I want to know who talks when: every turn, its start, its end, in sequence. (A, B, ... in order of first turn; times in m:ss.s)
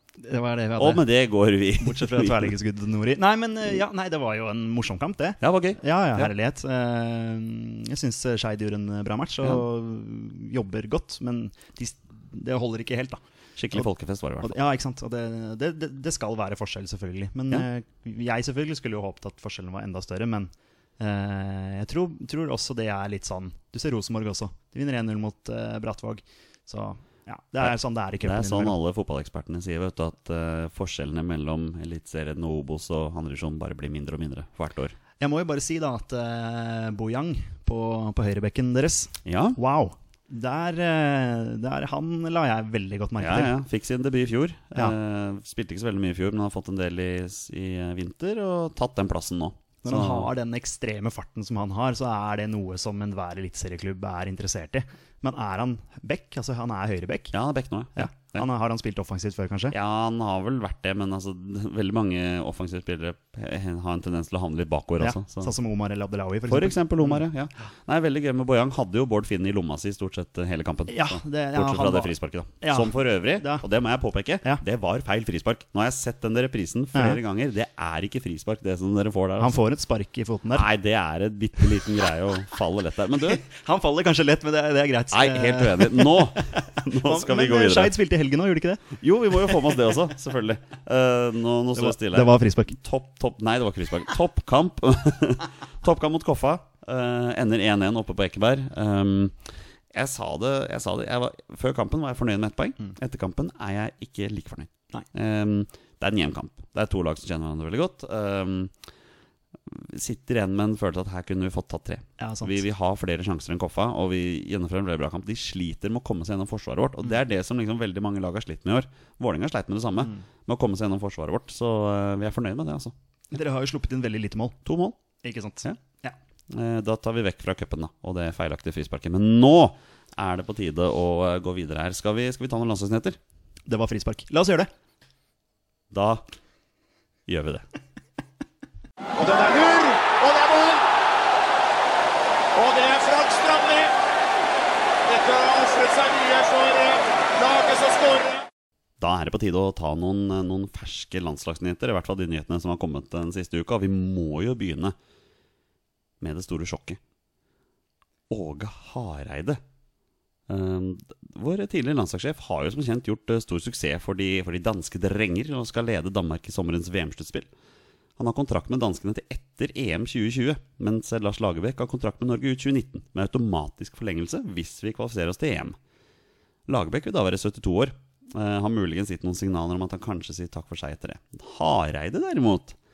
0:00.2-0:01.1 A
0:00.8-0:02.5 B
0:01.8-0:13.2 A
0:05.4-0:06.3 B
0:13.6-0:14.6 B
0:14.4-0:28.8 A
0:27.6-0:35.0 B
0:35.2-0:43.5 A
0:39.2-0:39.6 B
0:43.2-0:50.3 B
0:49.8-0:57.3 A
0:57.3-0:58.4 B
0:58.0-0:59.8 A
0:59.7-1:05.5 B
1:05.0-1:07.2 A
1:06.5-1:19.6 B
1:10.9-1:13.6 A
1:16.9-1:17.2 A
1:19.4-1:20.7 A
1:20.5-1:23.4 B
1:23.2-1:29.0 A
1:25.1-1:28.0 B
1:29.0-1:48.7 B
1:31.8-1:32.8 A
1:49.7-2:02.9 B
1:52.2-1:52.6 A
2:03.3-2:04.6 A
2:04.6-2:05.0 B
2:05.2-2:06.2 A
2:06.5-2:13.2 B
2:13.7-2:14.7 A
2:15.9-2:16.2 B
2:17.3-2:17.6 B
2:19.2-2:20.8 C
2:22.6-2:23.9 C
2:25.1-2:28.5 C
2:29.0-2:35.0 B
2:36.2-2:37.0 B
2:38.3-2:39.6 B
2:40.5-2:47.5 B
2:48.2-2:55.8 B
2:56.7-3:02.8 B